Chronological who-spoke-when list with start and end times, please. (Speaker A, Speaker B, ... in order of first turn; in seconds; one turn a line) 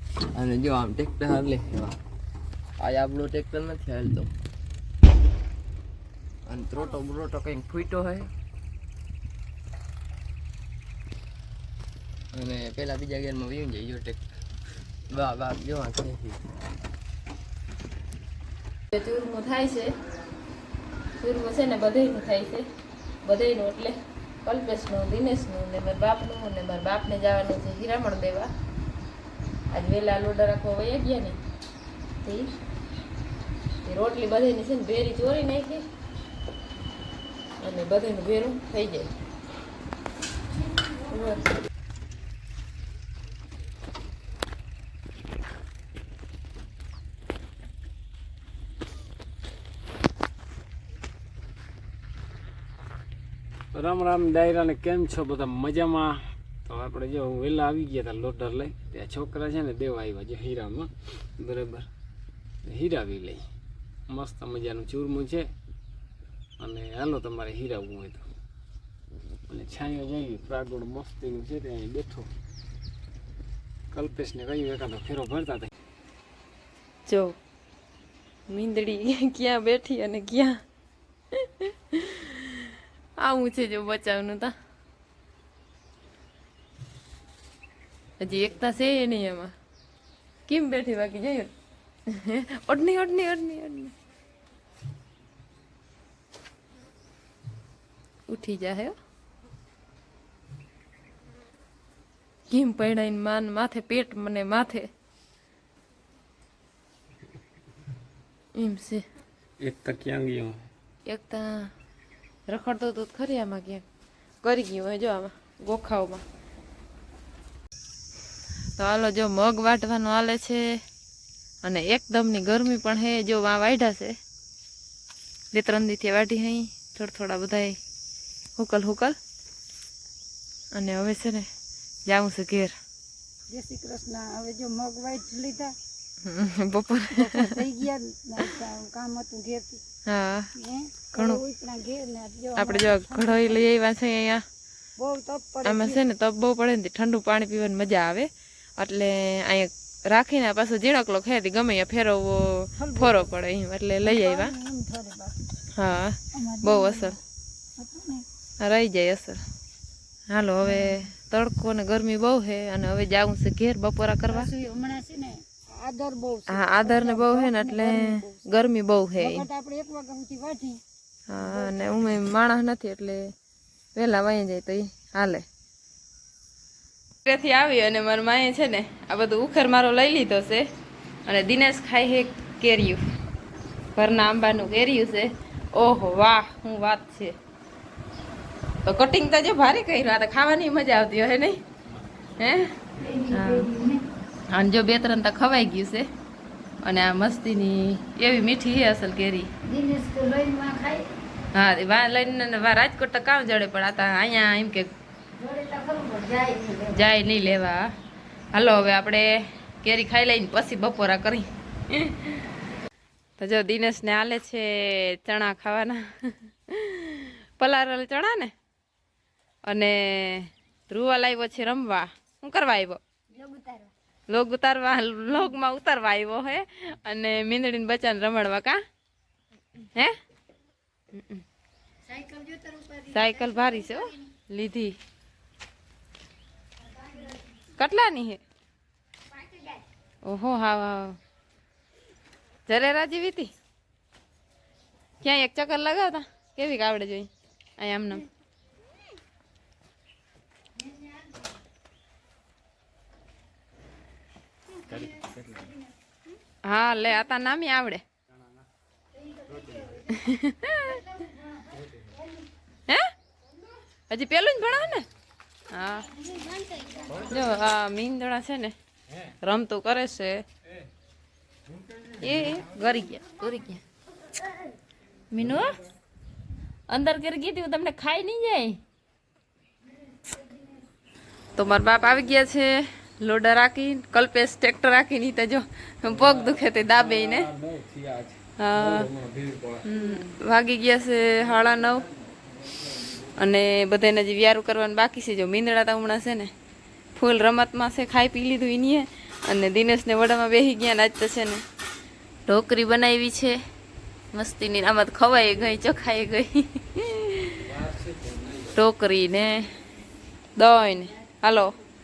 Speaker A: 0.3-2.0
Speaker A: 2.8-4.3
Speaker A: 6.5-8.3
Speaker A: 12.3-14.2
Speaker A: 15.1-16.4
Speaker B: 18.9-19.9
Speaker B: 21.2-22.6
Speaker B: 23.2-28.5
Speaker B: 29.7-31.4
Speaker B: 32.2-32.5
Speaker B: 33.8-35.8
Speaker B: 37.6-39.1
Speaker B: 41.1-41.5
Speaker C: 53.7-61.9
Speaker C: 62.6-63.4
Speaker C: 64.1-65.5
Speaker C: 66.6-68.2
Speaker C: 69.5-72.3
Speaker C: 73.9-75.7
Speaker B: 77.1-77.4
Speaker B: 78.5-80.6
Speaker B: 81.6-82.4
Speaker B: 83.2-84.5
Speaker B: 88.2-89.5
Speaker B: 90.5-91.5
Speaker B: 92.1-93.9
Speaker B: 98.3-98.9
Speaker B: 102.5-104.9
Speaker B: 108.5-109.0
Speaker C: 109.6-110.6
Speaker B: 111.0-111.7
Speaker B: 112.5-113.8
Speaker B: 114.4-116.2
Speaker B: 118.8-120.8
Speaker B: 121.6-124.2
Speaker B: 125.5-127.8
Speaker B: 128.6-129.2
Speaker B: 130.7-131.5
Speaker B: 132.1-132.7
Speaker D: 133.5-135.7
Speaker B: 136.2-137.5
Speaker D: 137.1-139.8
Speaker B: 140.1-140.5
Speaker D: 140.6-143.6
Speaker B: 141.1-141.4
Speaker B: 142.5-144.4
Speaker D: 145.0-145.9
Speaker B: 145.6-154.5
Speaker D: 152.8-153.2
Speaker D: 154.0-155.4
Speaker B: 155.7-157.2
Speaker D: 156.3-157.2
Speaker D: 157.8-158.2
Speaker B: 158.6-159.4
Speaker B: 160.3-164.5
Speaker D: 164.3-168.4
Speaker B: 166.5-169.5
Speaker D: 169.2-170.8
Speaker B: 171.3-173.2
Speaker D: 171.4-171.8
Speaker B: 173.9-175.4
Speaker B: 177.2-180.6
Speaker B: 181.3-183.0
Speaker B: 183.9-187.3
Speaker B: 188.8-191.6
Speaker B: 192.4-192.7
Speaker D: 193.0-194.0
Speaker B: 193.3-193.7
Speaker B: 194.5-196.1
Speaker B: 196.8-199.5
Speaker D: 199.7-201.1
Speaker B: 201.5-204.9
Speaker D: 205.4-207.0
Speaker B: 206.9-207.9
Speaker B: 208.5-212.3
Speaker B: 213.4-218.5
Speaker B: 219.7-223.0
Speaker D: 223.3-223.9
Speaker B: 224.3-228.8
Speaker B: 231.1-231.4
Speaker D: 232.1-233.9
Speaker B: 233.0-235.0
Speaker B: 237.7-238.4
Speaker B: 240.2-241.2
Speaker B: 242.7-243.5
Speaker B: 245.2-248.2
Speaker B: 256.6-258.0
Speaker D: 259.6-259.9
Speaker B: 260.1-261.0
Speaker B: 264.1-265.1
Speaker B: 265.7-266.1
Speaker D: 266.3-267.3
Speaker B: 267.2-268.7
Speaker B: 269.4-270.4
Speaker B: 272.2-273.8
Speaker B: 275.3-275.7
Speaker B: 276.9-278.8
Speaker B: 281.6-287.5
Speaker C: 286.1-289.8
Speaker B: 288.6-289.1
Speaker B: 289.8-292.0
Speaker B: 293.3-296.5
Speaker B: 297.1-301.6
Speaker B: 302.5-303.6
Speaker B: 304.3-307.8
Speaker B: 308.7-309.7
Speaker B: 310.6-311.7